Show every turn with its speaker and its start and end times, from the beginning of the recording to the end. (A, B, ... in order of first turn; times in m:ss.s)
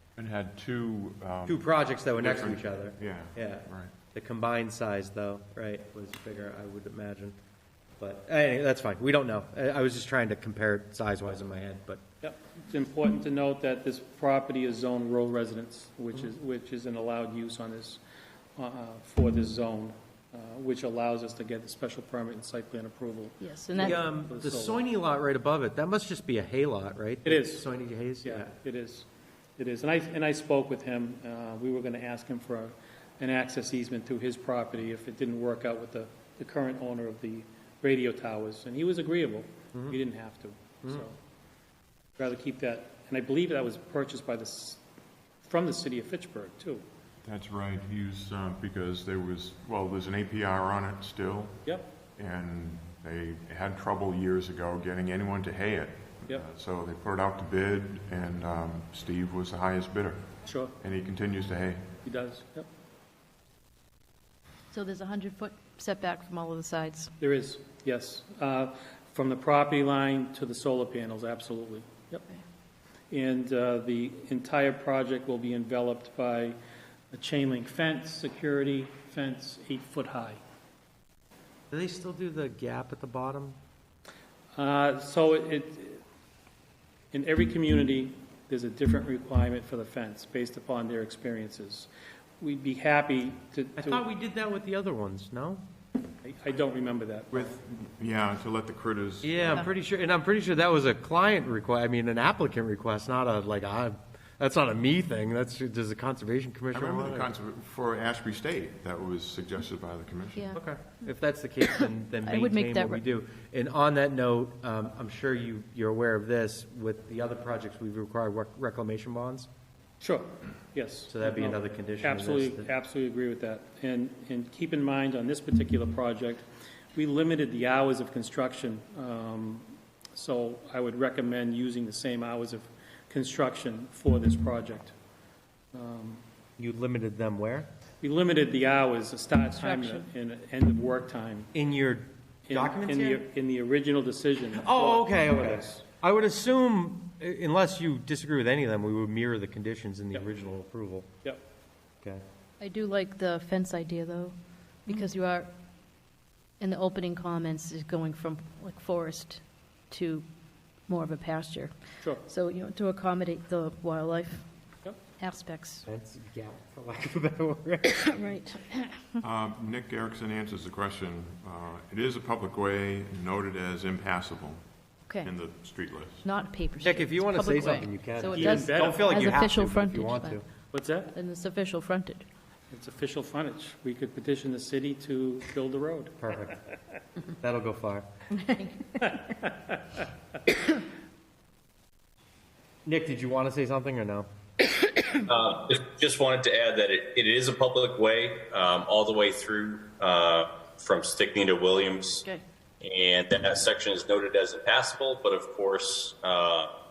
0:00.2-0:03.9 A
0:01.4-0:07.4 B
0:08.0-0:12.0 B
0:12.2-0:18.0 C
0:18.6-0:24.8 C
0:23.4-0:24.0 D
0:23.8-0:28.5 B
0:27.2-0:27.6 C
0:28.2-0:41.2 C
0:42.2-0:44.8 C
0:45.4-0:46.8 C
0:47.2-0:51.6 A
0:52.2-1:00.2 A
1:00.4-1:00.7 C
1:00.8-1:01.8 A
1:02.0-1:02.7 C
1:04.7-1:07.1 D
1:07.2-1:12.2 C
1:13.1-1:16.6 C
1:17.1-1:20.4 C
1:21.7-1:23.6 B
1:24.5-1:26.0 C
1:27.1-1:31.9 C
1:32.4-1:34.0 C
1:33.8-1:35.6 B
1:36.2-1:37.6 C
1:37.3-1:39.7 A
1:39.2-1:47.3 B
1:46.7-1:50.5 A
1:50.3-1:51.1 D
1:50.5-1:59.5 B
1:51.7-1:53.0 D
2:00.0-2:06.4 C
2:01.1-2:02.7 B
2:06.9-2:14.9 C
2:15.7-2:16.2 C
2:16.6-2:17.7 B
2:18.0-2:21.5 C
2:19.6-2:20.1 D
2:21.5-2:23.2 B
2:22.5-2:25.8 C
2:24.5-2:31.1 B
2:32.6-2:35.5 D
2:36.6-2:40.2 D
2:40.9-2:44.4 D
2:45.2-2:45.8 D
2:45.8-2:48.4 B
2:48.0-2:49.2 D
2:49.2-2:54.6 A
2:55.1-2:55.3 D
2:55.2-2:56.2 A
2:56.2-3:00.4 D
2:56.8-3:00.4 B
2:58.3-2:59.2 C
3:00.7-3:01.1 C
3:01.1-3:02.2 D
3:02.7-3:06.6 C
3:06.2-3:06.6 B
3:07.4-3:08.1 B
3:08.3-3:09.4 D
3:09.0-3:10.0 C
3:12.8-3:14.3 B
3:15.1-3:22.2 E
3:22.8-3:26.7 E